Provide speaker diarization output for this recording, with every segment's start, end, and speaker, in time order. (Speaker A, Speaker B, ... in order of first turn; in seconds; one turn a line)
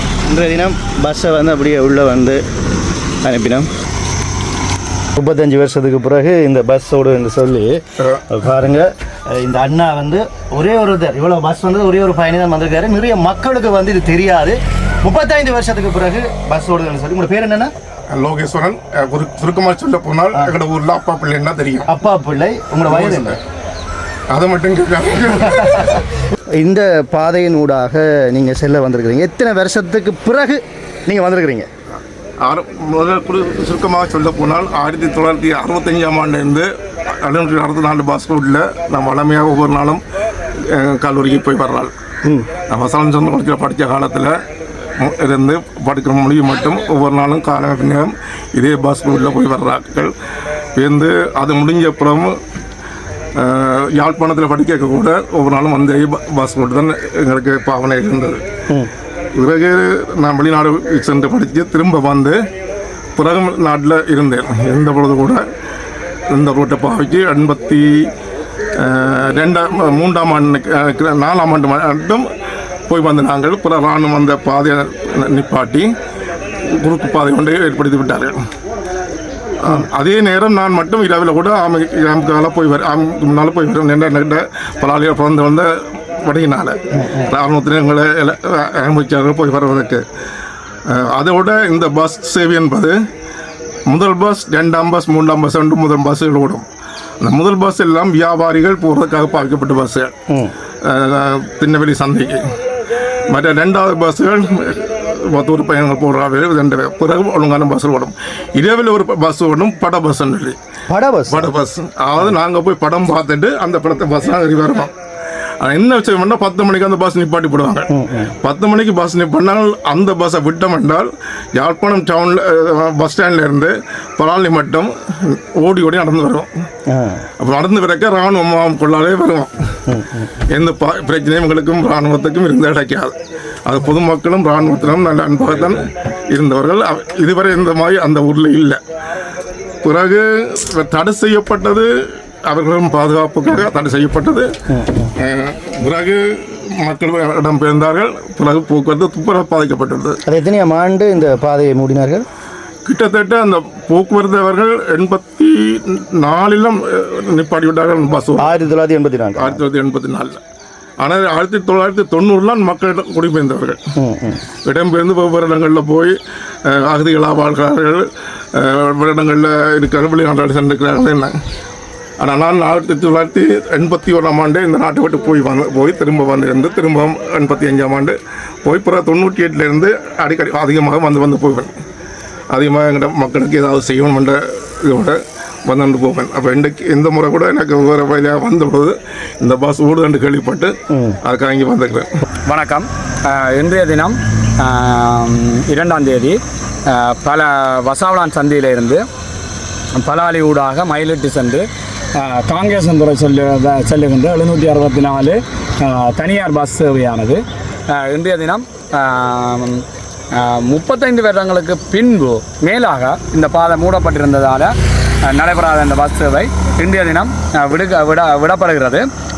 Speaker A: 0.3-2.4
Speaker A: 3.2-3.7
Speaker A: 5.2-17.7
Speaker B: 18.1-21.9
Speaker A: 21.9-23.4
Speaker B: 22.9-23.4
Speaker B: 24.3-26.0
Speaker A: 26.6-31.7
Speaker B: 32.4-36.7
Speaker B: 37.2-40.0
Speaker B: 40.7-41.9
Speaker B: 42.7-44.4
Speaker B: 45.0-50.1
Speaker B: 50.8-52.3
Speaker B: 53.4-58.4
Speaker B: 59.4-62.4
Speaker B: 63.2-65.4
Speaker B: 66.3-68.1
Speaker B: 68.8-72.2
Speaker B: 72.9-75.9
Speaker B: 76.8-78.4
Speaker B: 79.6-85.7
Speaker B: 86.2-90.0
Speaker B: 90.9-93.0
Speaker B: 93.9-96.7
Speaker B: 97.2-100.1
Speaker B: 100.8-102.4
Speaker B: 103.3-110.5
Speaker A: 110.9-111.5
Speaker B: 111.3-114.9
Speaker B: 115.6-117.9
Speaker A: 117.9-118.3
Speaker B: 118.4-126.5
Speaker A: 126.9-127.2
Speaker B: 127.4-129.5
Speaker A: 129.9-130.2
Speaker B: 130.5-138.8
Speaker B: 139.8-141.9
Speaker B: 142.5-144.5
Speaker A: 144.7-145.1
Speaker B: 145.2-150.2
Speaker A: 150.3-152.2
Speaker B: 152.8-158.5
Speaker A: 158.4-159.6
Speaker B: 159.4-160.4
Speaker B: 161.0-163.8
Speaker A: 164.0-164.4
Speaker B: 164.7-166.2
Speaker B: 166.7-168.0
Speaker B: 168.6-171.3
Speaker B: 172.2-181.7
Speaker B: 182.5-190.7
Speaker B: 191.2-192.1
Speaker C: 192.5-196.4
Speaker C: 196.9-199.0
Speaker C: 200.0-201.7
Speaker C: 202.2-209.8
Speaker C: 210.3-214.7
Speaker C: 215.3-219.0